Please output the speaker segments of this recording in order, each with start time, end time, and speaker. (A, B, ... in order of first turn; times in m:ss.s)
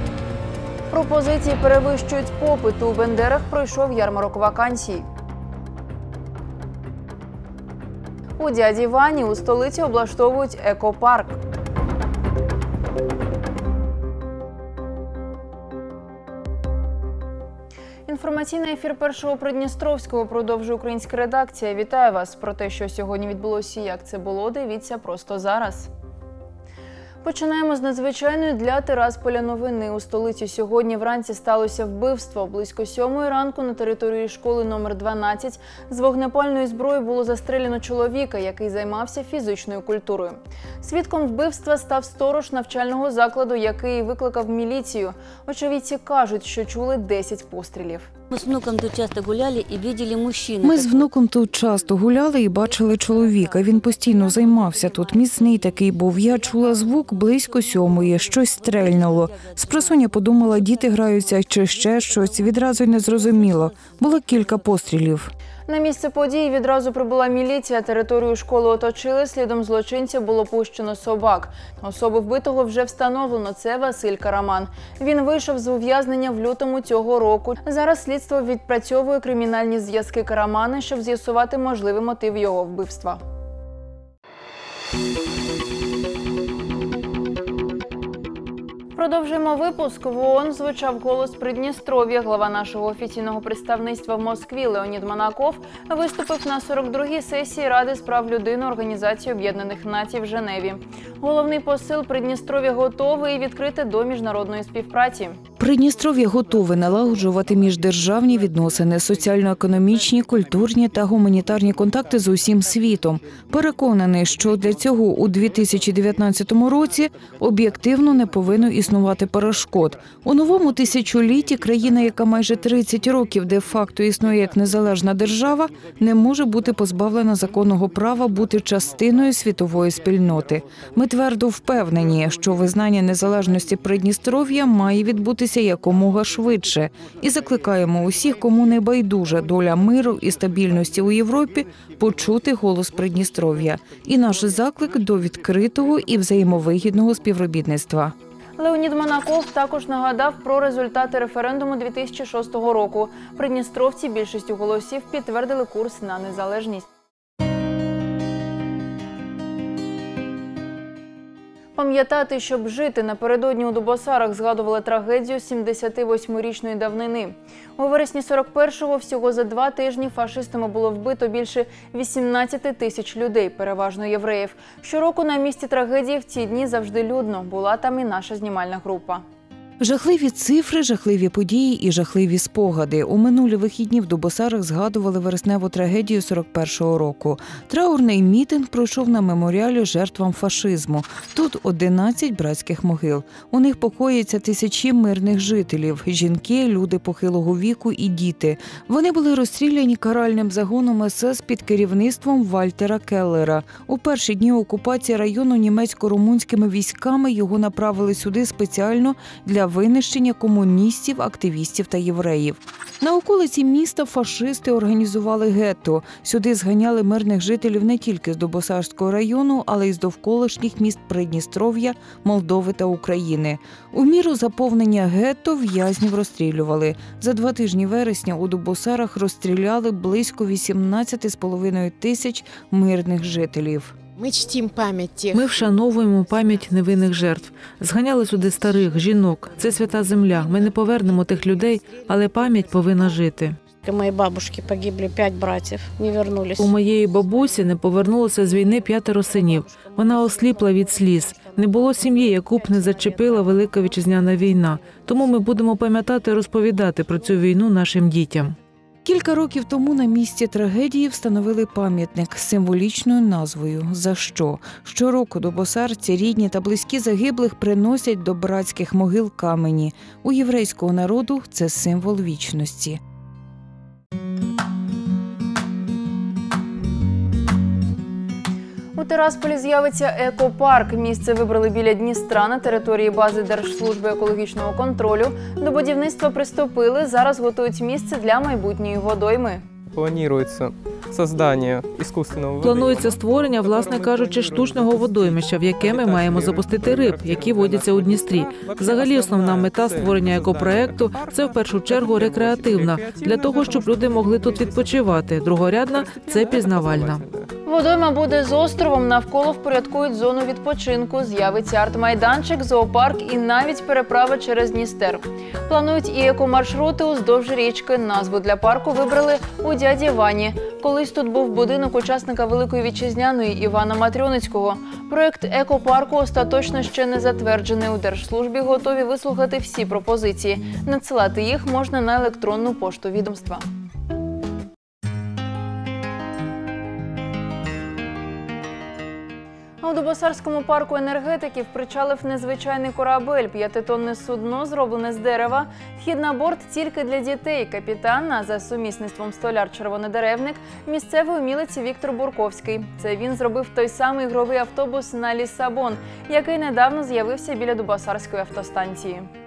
0:00.9-0:05.0 A
0:08.4-0:11.4 A
0:18.1-0:25.9 A
0:27.2-0:48.1 A
0:48.3-0:51.1 B
0:50.6-1:05.3 C
0:58.3-0:59.5 B
1:05.7-1:23.2 A
1:29.0-1:45.4 A
1:45.6-2:28.1 C
2:28.6-2:36.8 A
2:41.8-2:59.2 A
2:59.8-3:53.9 C
3:54.2-3:55.6 D
3:55.3-4:03.6 E
4:03.8-4:06.7 D
4:06.6-4:18.6 E
4:19.0-4:33.0 C
4:39.0-4:49.6 A
4:49.9-5:05.2 F
4:52.6-5:07.3 E
5:05.9-5:07.5 F
5:07.6-5:33.6 A
5:39.8-5:59.3 A